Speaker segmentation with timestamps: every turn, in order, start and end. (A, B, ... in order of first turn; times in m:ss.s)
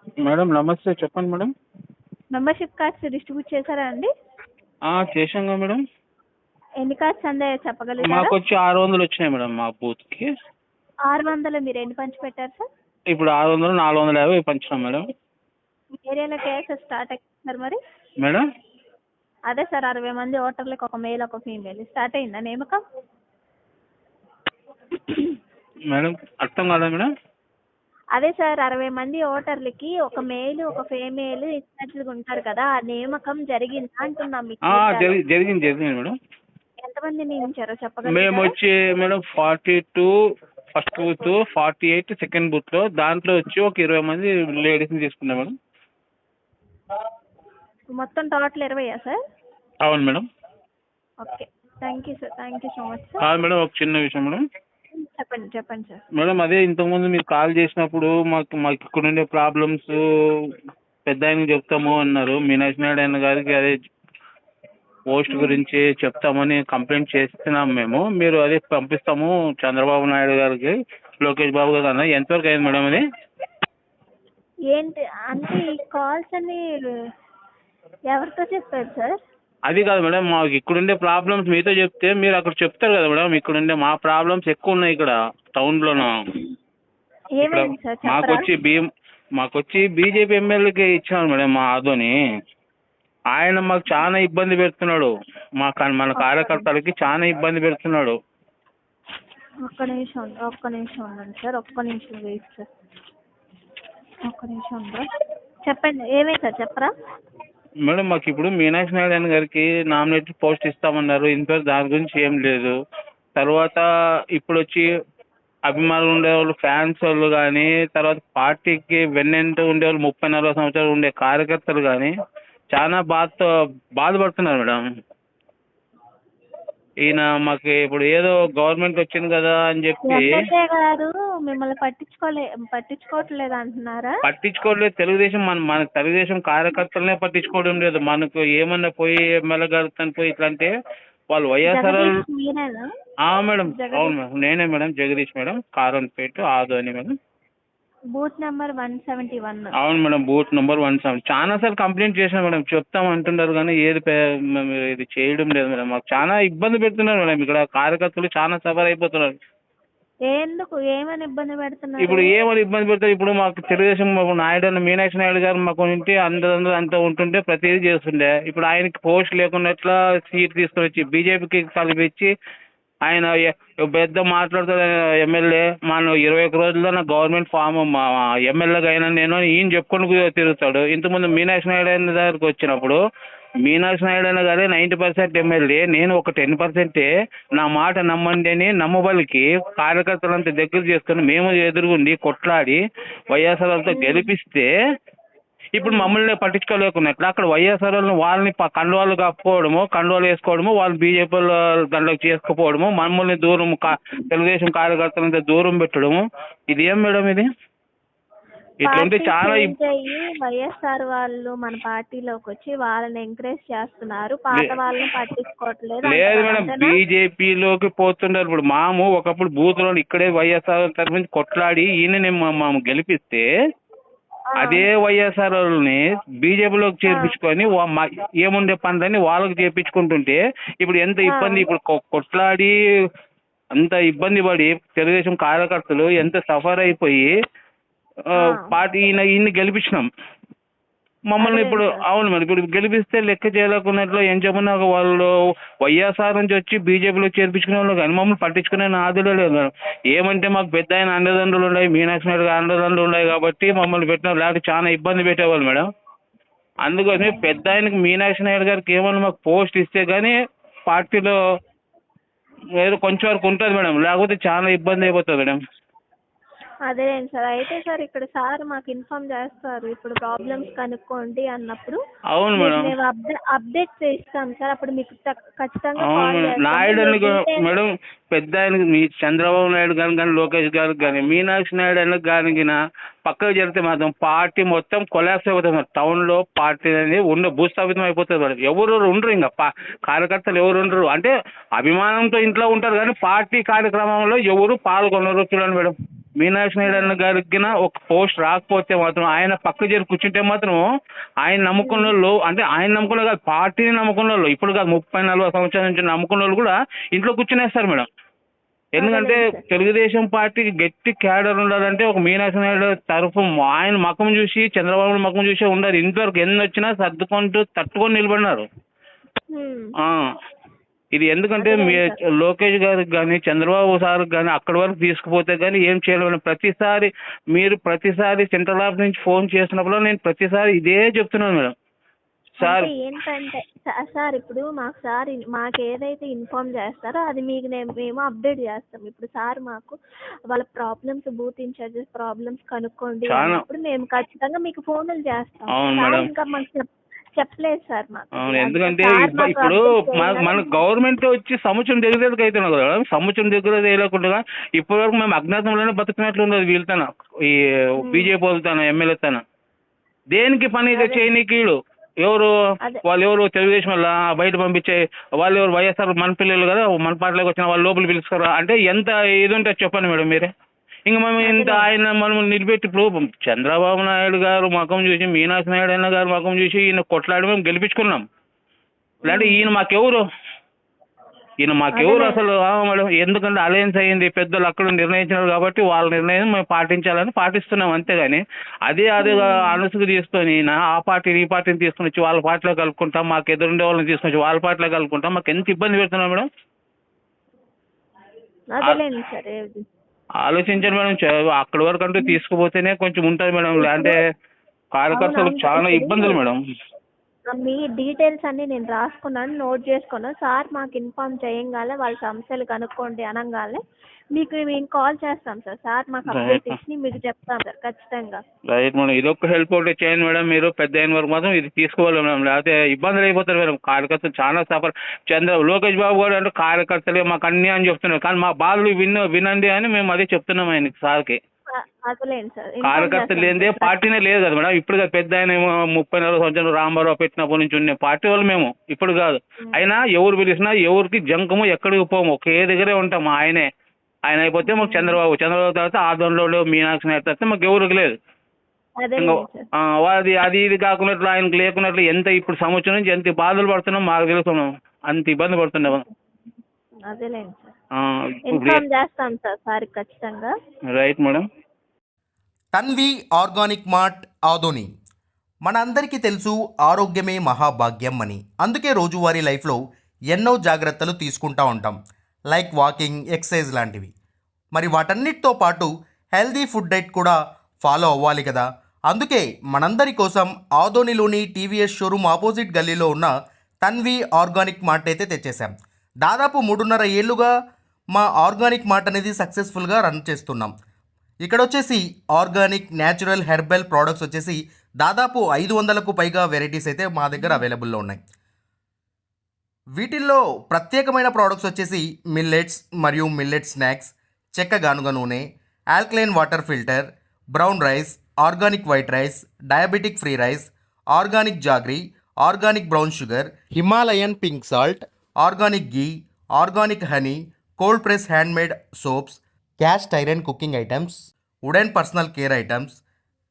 0:00.3-0:01.5 A
0:02.3-0:04.1 B
0:04.9-0:05.8 A
0:06.8-0:08.3 B
0:08.0-0:10.3 A
0:11.1-0:12.7 B
0:13.1-0:15.0 A
0:16.0-0:17.8 B
0:19.5-0:22.8 B
0:25.9-0:27.1 A
0:28.2-0:35.2 B
0:34.7-0:36.1 A
0:36.8-0:38.5 B
0:38.1-0:40.1 A
0:40.8-0:45.5 A
0:47.9-0:49.2 B
0:49.8-0:50.2 A
0:51.2-0:53.2 B
0:53.2-0:54.4 A
0:54.9-0:56.0 B
0:56.2-1:00.0 A
1:01.1-1:03.7 A
1:05.1-1:13.0 A
1:05.3-1:05.6 B
1:14.7-1:16.9 B
1:18.1-1:19.2 B
1:19.7-1:26.2 A
1:27.4-1:28.5 B
1:27.4-1:28.9 A
1:29.4-1:32.2 A
1:33.3-1:35.1 A
1:35.6-1:38.2 A
1:36.2-1:36.7 B
1:39.7-1:42.7 B
1:44.3-1:45.1 B
1:45.7-1:46.9 B
1:47.9-1:52.8 A
1:53.4-1:54.9 A
1:55.7-2:02.1 A
2:02.7-2:04.8 A
2:07.0-2:10.5 A
2:10.1-2:14.1 B
2:14.3-2:20.7 A
2:21.3-2:22.1 A
2:21.7-2:22.9 B
2:23.3-2:27.1 A
2:23.7-2:24.2 B
2:28.2-2:29.7 B
2:29.8-2:39.4 A
2:40.3-2:42.3 B
2:42.0-2:52.3 A
2:53.1-3:03.0 A
3:03.6-3:14.7 A
3:13.9-3:14.3 B
3:15.8-3:27.5 A
3:15.8-3:16.2 B
3:24.0-3:24.3 B
3:28.8-3:29.8 A
3:28.9-3:36.9 B
3:36.1-3:43.4 A
3:44.5-3:44.9 B
3:44.6-3:52.7 A
3:47.1-3:47.3 B
3:51.3-3:51.6 B
3:53.8-3:57.3 A
3:58.4-3:58.7 B
3:58.4-4:00.1 A
4:01.3-4:15.9 A
4:01.4-4:02.0 B
4:16.8-4:20.4 A
4:17.2-4:17.5 B
4:20.9-4:21.4 A
4:22.8-4:25.6 A
4:26.9-4:32.0 B
4:32.4-4:32.9 A
4:32.6-4:37.7 B
4:36.0-5:00.8 A
4:56.8-4:57.1 B
5:01.4-5:08.1 A
5:01.8-5:02.1 B
5:09.0-5:09.6 B
5:09.0-5:18.6 A
5:19.5-5:19.9 B
5:21.1-5:31.7 A
5:21.6-5:22.2 B
5:32.6-5:32.9 A
5:32.6-5:40.0 B
5:40.5-5:50.8 B
5:43.3-5:43.6 A
5:45.7-5:46.3 A
5:48.4-5:59.4 A
5:58.0-5:58.3 B
6:00.3-6:02.5 A
6:01.0-6:01.3 B
6:03.1-6:10.5 A
6:11.1-6:18.2 A
6:11.4-6:11.9 B
6:19.3-6:19.6 B
6:19.3-6:20.2 A
6:21.6-6:36.5 A
6:21.9-6:22.4 B
6:29.2-6:29.8 B
6:38.7-6:39.8 B
6:40.4-6:44.2 A
6:43.8-6:44.2 B
6:45.0-6:46.6 A
6:45.1-6:46.4 B
6:47.5-6:53.8 B
6:54.4-6:58.4 B
6:56.3-6:56.7 A
6:58.7-7:11.4 A
7:11.7-7:13.9 B
7:12.9-7:23.7 A
7:24.3-7:28.2 A
7:24.6-7:25.2 B
7:29.0-7:29.7 B
7:29.2-7:36.0 A
7:37.1-7:37.7 B
7:38.0-7:38.8 A
7:38.5-7:40.5 B
7:40.9-7:41.4 A
7:42.7-7:44.9 C
7:45.6-7:49.8 C
7:50.3-7:52.0 C
7:52.5-7:54.1 C
7:54.8-8:03.3 C
8:03.8-8:05.7 C
8:06.2-8:07.5 C
8:08.1-8:10.7 C
8:11.4-8:18.2 C
8:20.0-8:43.0 C